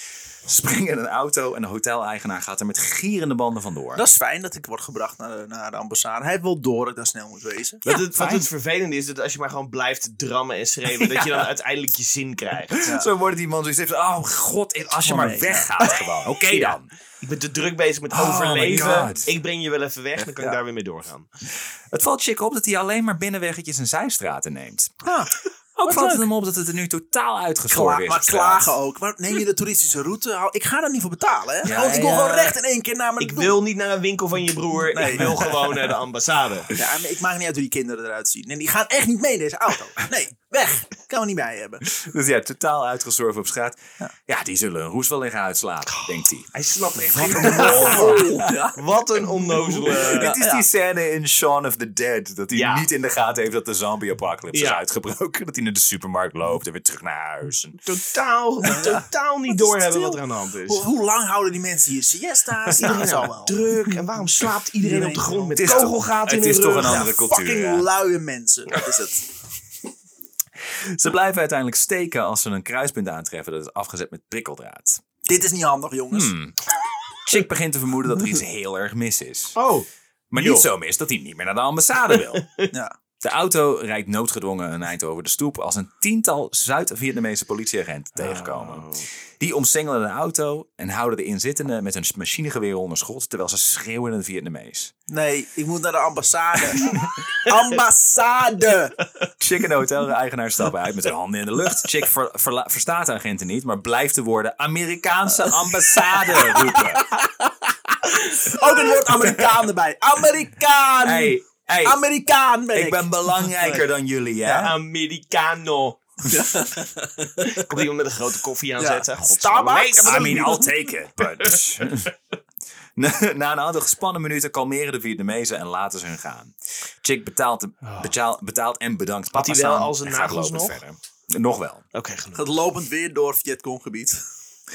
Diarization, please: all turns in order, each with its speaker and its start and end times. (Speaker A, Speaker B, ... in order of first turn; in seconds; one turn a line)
Speaker A: 0.4-4.0
Speaker B: 3.9-7.8
Speaker A: 7.8-8.5
Speaker C: 7.8-12.9
Speaker A: 10.9-11.5
Speaker A: 12.7-16.9
Speaker B: 12.8-13.1
Speaker B: 15.0-15.8
Speaker C: 16.5-21.3
Speaker A: 18.1-19.3
Speaker A: 21.9-25.0
Speaker B: 25.0-26.3
Speaker A: 25.8-28.7
Speaker B: 27.7-33.5
Speaker A: 31.6-32.5
Speaker C: 33.2-36.7
Speaker B: 34.8-35.4
Speaker A: 35.1-35.9
Speaker B: 36.7-41.9
Speaker A: 41.9-46.5
Speaker C: 45.9-50.3
Speaker B: 47.1-48.8
Speaker A: 47.2-48.6
Speaker B: 49.5-50.6
Speaker A: 49.7-57.8
Speaker C: 52.5-52.9
Speaker C: 54.5-54.8
Speaker C: 57.9-60.9
Speaker B: 58.6-63.6
Speaker C: 62.7-67.0
Speaker B: 64.8-65.9
Speaker A: 65.5-67.9
Speaker B: 66.8-69.2
Speaker A: 70.6-75.0
Speaker B: 75.2-76.3
Speaker A: 76.1-76.6
Speaker A: 77.2-79.6
Speaker C: 79.5-80.7
Speaker A: 80.3-82.5
Speaker C: 82.1-82.7
Speaker A: 83.2-94.9
Speaker C: 88.2-89.1
Speaker B: 95.1-99.0
Speaker A: 96.8-97.2
Speaker A: 99.4-107.2
Speaker B: 105.4-113.8
Speaker A: 108.6-109.6
Speaker A: 111.0-112.0
Speaker A: 112.7-114.7
Speaker B: 114.4-114.7
Speaker C: 114.5-116.0
Speaker B: 116.3-117.7
Speaker C: 117.4-120.7
Speaker B: 118.8-120.7
Speaker A: 120.0-122.1
Speaker A: 123.0-131.8
Speaker C: 127.8-128.1
Speaker C: 129.3-130.8
Speaker C: 131.9-132.6
Speaker B: 132.3-134.2